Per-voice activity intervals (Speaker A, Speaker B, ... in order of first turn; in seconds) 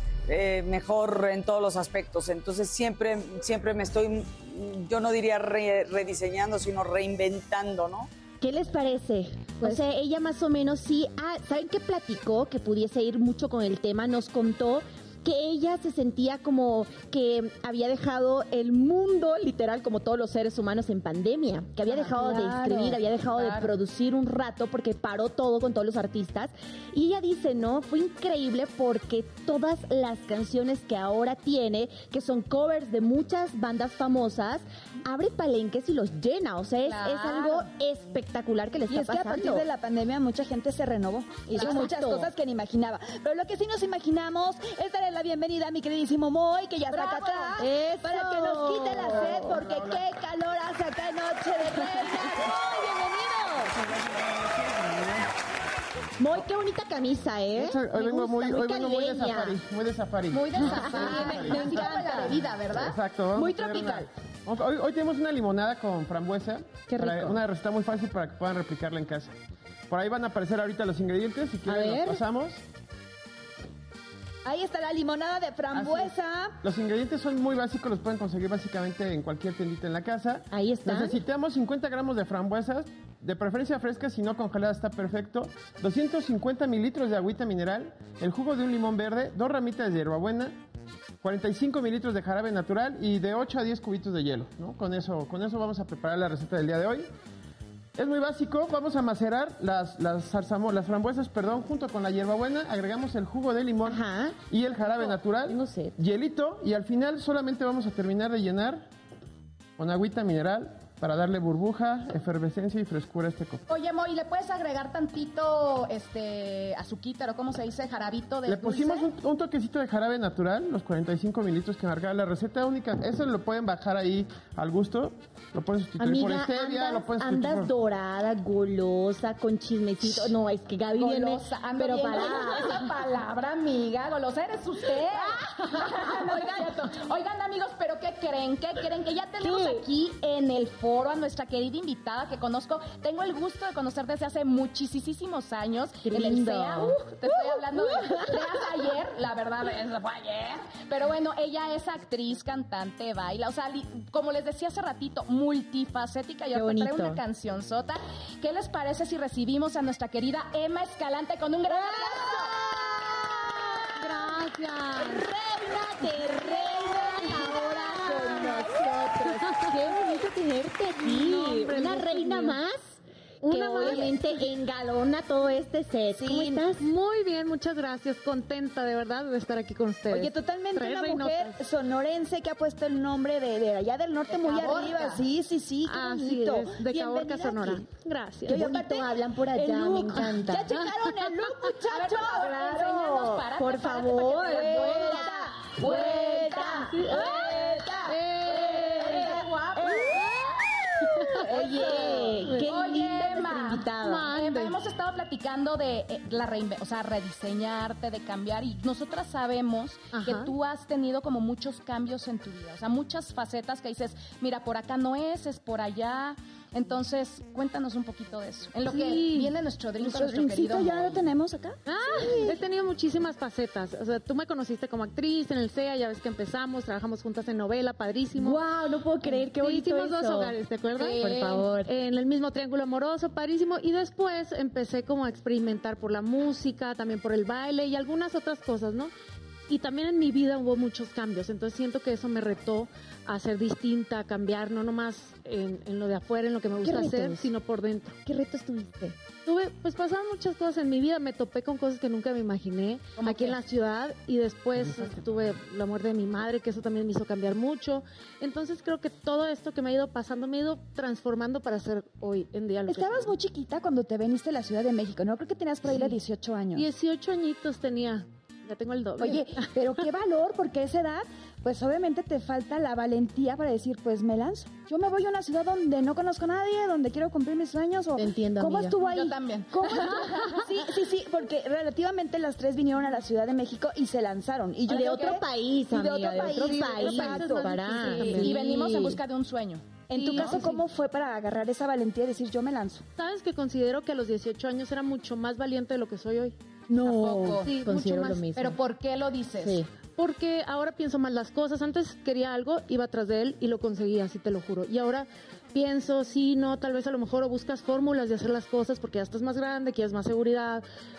Speaker A: 0.3-8.1
Speaker B: 8.4-39.6, 41.5-42.3, 47.6-49.9, 51.8-52.5, 56.2-59.6, 60.6-62.4, 67.0-67.3, 71.7-72.2, 80.5-81.2, 103.8-104.4, 105.5-106.0, 126.0-132.9, 139.4-139.9, 146.0-148.7, 156.5-157.2, 161.7-172.9, 173.4-176.8, 188.5-190.8, 192.3-204.3, 228.4-230.6, 231.2-231.9, 246.8-247.4, 248.3-249.2, 278.2-279.0, 284.9-289.2, 297.2-298.8, 299.6-299.9
Speaker C: 21.9-23.8, 36.8-37.7, 41.5-41.9, 46.9-47.6, 60.3-64.0, 113.7-119.1, 130.9-162.6, 184.3-185.3, 191.9-197.8, 198.4-200.2, 201.8-221.2, 231.0-231.6, 253.2-253.6, 279.0-280.7, 284.9-285.4, 288.4-290.6, 297.0-297.7, 298.6-299.9
Speaker D: 38.9-53.7, 74.4-76.6, 176.2-176.6, 180.1-187.8, 188.5-192.7, 194.4-198.1, 201.3-202.5, 220.0-222.6, 262.9-266.9, 269.2-288.4, 290.1-293.1, 297.0-297.6
Speaker E: 49.4-50.0, 53.8-55.3, 57.5-69.3, 69.9-72.6, 75.7-90.5, 91.2-97.1, 98.0-108.9, 109.8-113.6, 118.5-127.7
Speaker F: 164.0-165.3, 167.2-170.2, 171.0-172.6, 173.4-174.3, 176.8-181.6, 185.8-188.7, 190.2-190.9, 196.7-199.2, 201.2-202.7, 204.0-204.8, 210.1-210.5, 218.9-219.5, 221.9-228.6, 229.2-239.1, 239.7-248.2, 249.4-263.3, 265.8-266.2, 266.7-269.8, 286.4-288.6, 290.1-290.8, 293.2-296.6, 297.6-298.5, 300.2-310.8